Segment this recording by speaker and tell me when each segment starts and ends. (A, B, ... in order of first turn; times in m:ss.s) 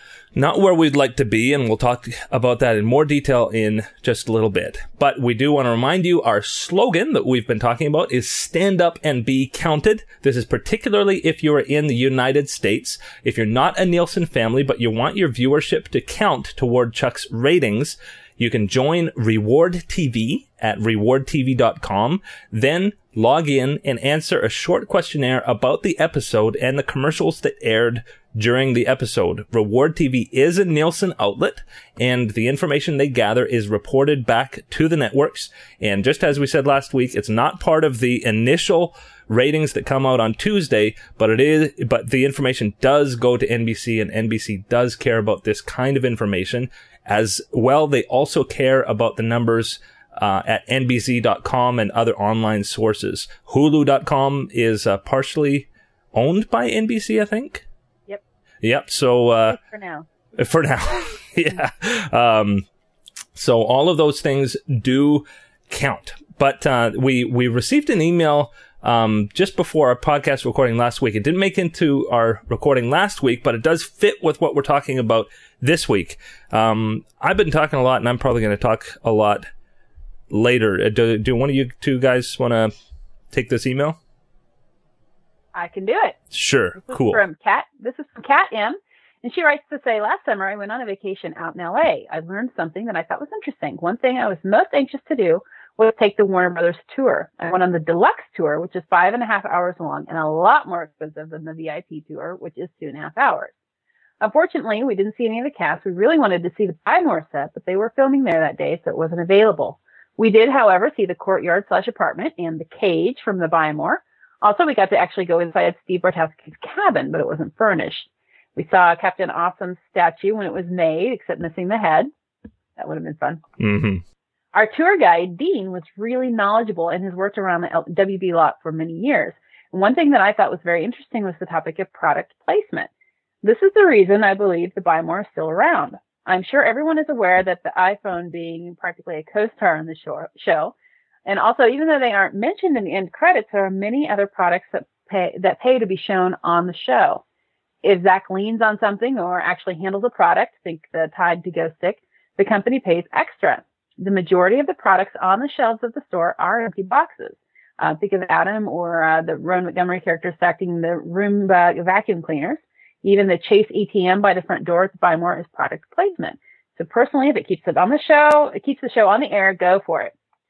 0:00.4-0:57.7 A
0:58.6-0:59.6 A
0:59.5-1:00.1 B
1:00.4-1:02.7 A
1:03.4-1:19.5 A
1:20.3-1:22.7 A
1:23.3-1:24.0 A
1:25.5-1:26.2 B
1:26.3-1:27.2 A
1:26.8-1:43.5 B
1:44.2-2:02.1 B
2:02.8-2:03.4 B
2:03.6-2:04.0 A
2:04.5-2:12.9 B
2:13.4-2:20.7 B
2:21.3-2:27.2 B
2:27.8-2:50.1 B